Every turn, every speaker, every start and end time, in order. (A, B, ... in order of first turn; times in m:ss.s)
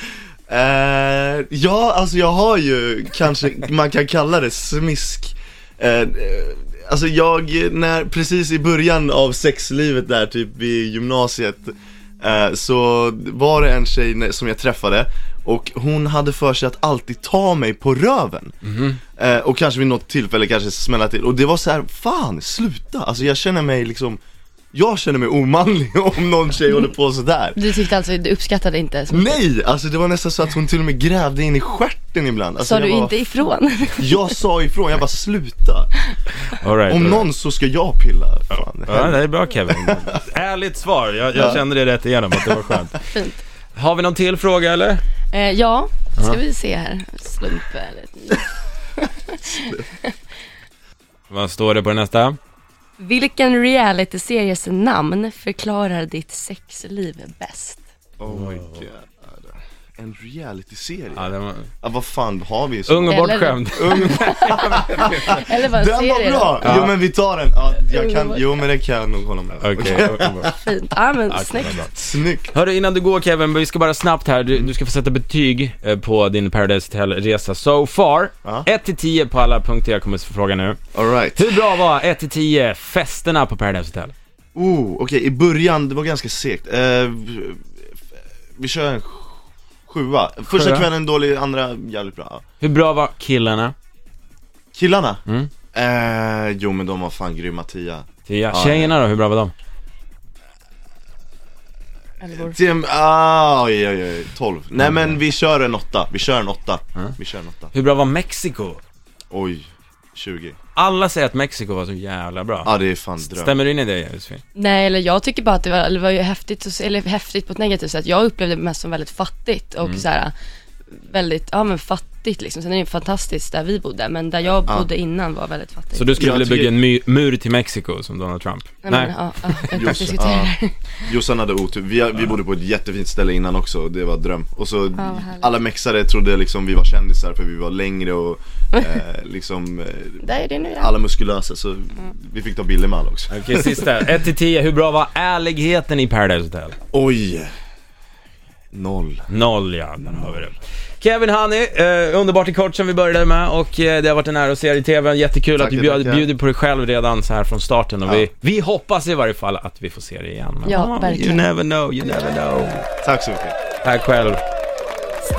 0:00.5-0:18.5 A
0:18.6-0:19.0 B
0:19.2-0:24.2 A
0:24.7-0:27.6 A
0:27.6-0:29.3 C
0:29.1-0:33.2 A
0:32.6-0:34.4 C
0:34.0-0:35.9 A
0:36.5-0:37.3 B
0:36.8-0:40.2 A
0:38.5-0:43.0 B
0:41.3-0:41.6 A
0:43.1-0:43.4 C
0:43.7-0:45.0 B
0:45.3-0:48.6 C
0:49.3-0:50.2 C
0:49.6-0:49.8 A
0:51.3-0:52.4 B
0:53.0-0:57.8 C
0:58.2-1:03.2 A
0:58.3-0:58.8 B
1:01.1-1:01.7 B
1:02.8-1:05.5 B
1:03.1-1:06.8 C
1:03.7-1:10.6 A
1:06.6-1:07.0 B
1:07.8-1:08.6 C
1:09.6-1:10.5 B
1:10.5-1:11.8 C
1:11.3-1:20.8 B
1:11.8-1:12.5 A
1:20.9-1:21.8 A
1:21.4-1:24.1 B
1:24.5-1:27.6 A
1:28.6-1:32.4 A
1:30.5-1:30.9 B
1:32.6-1:33.7 B
1:34.7-1:35.2 A
1:35.3-1:35.5 B
1:35.7-1:39.0 A
1:38.2-1:39.5 B
1:42.2-1:42.6 C
1:42.3-1:47.7 A
1:44.8-1:45.2 B
1:47.7-1:48.8 B
1:49.3-1:50.6 A
1:50.7-1:54.4 B
1:52.6-1:53.6 A
1:54.5-2:00.3 C
2:01.1-2:06.3 C
2:05.9-2:10.0 B
2:06.2-2:06.8 A
2:08.8-2:11.1 C
2:09.7-2:10.5 A
2:11.1-2:23.8 A
2:15.0-2:15.6 C
2:20.2-2:20.9 C
2:23.3-2:26.8 B
2:26.9-2:27.5 A
2:28.7-2:29.2 A
2:29.3-2:42.9 B
2:35.6-2:36.3 A
2:40.6-2:41.4 C
2:43.0-2:43.6 A
2:43.8-2:44.4 B